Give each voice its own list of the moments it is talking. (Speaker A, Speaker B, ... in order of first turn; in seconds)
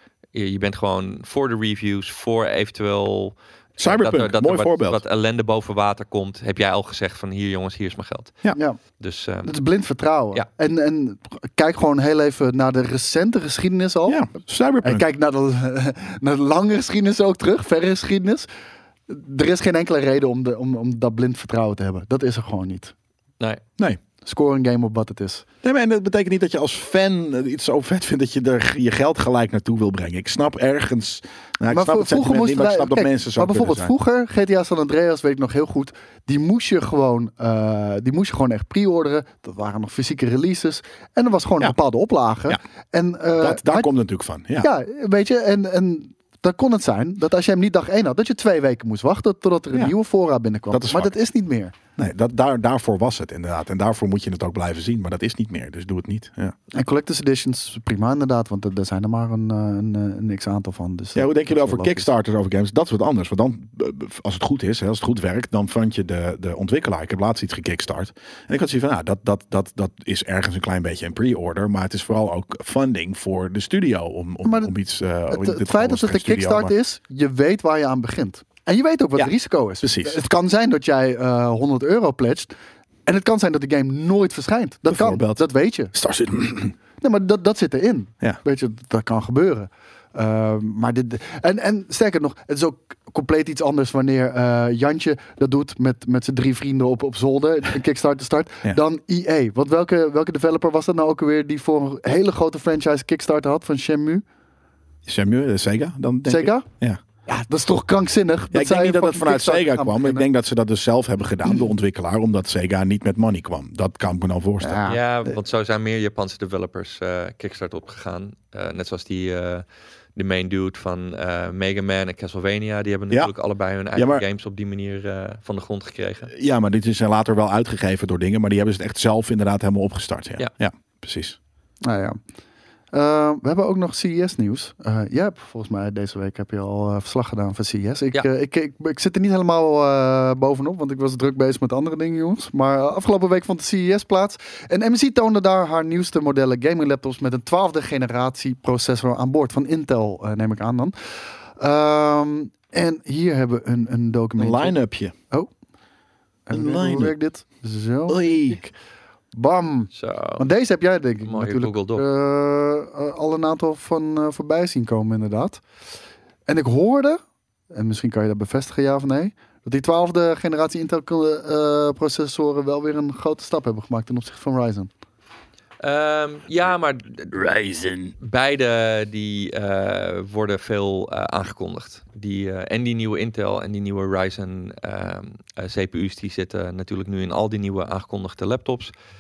Speaker A: 0.3-8.4, 9.0-9.6, 114.9-119.7, 120.2-126.3, 159.9-160.4, 161.2-162.1, 175.8-188.9
Speaker B: 3.8-5.0, 14.1-15.1, 25.6-33.9, 43.4-44.7, 50.7-51.1, 52.0-56.5, 61.1-76.7, 79.8-80.2, 84.9-86.7, 105.1-107.0, 108.5-114.8, 124.0-124.2, 126.3-131.4, 154.4-155.1, 156.5-157.1, 158.1-158.6, 177.3-178.1
Speaker C: 9.4-14.3, 14.8-18.5, 19.1-22.9, 24.2-25.5, 31.7-43.9, 44.6-51.8, 56.7-62.1, 74.5-74.7, 75.3-82.5, 83.1-85.9, 87.0-104.2, 106.3-106.7, 107.3-110.3, 111.5-111.7, 114.6-115.0, 131.8-132.2, 132.9-150.9, 151.6-154.8, 156.5-158.7, 159.3-165.6, 166.5-167.2, 167.7-174.9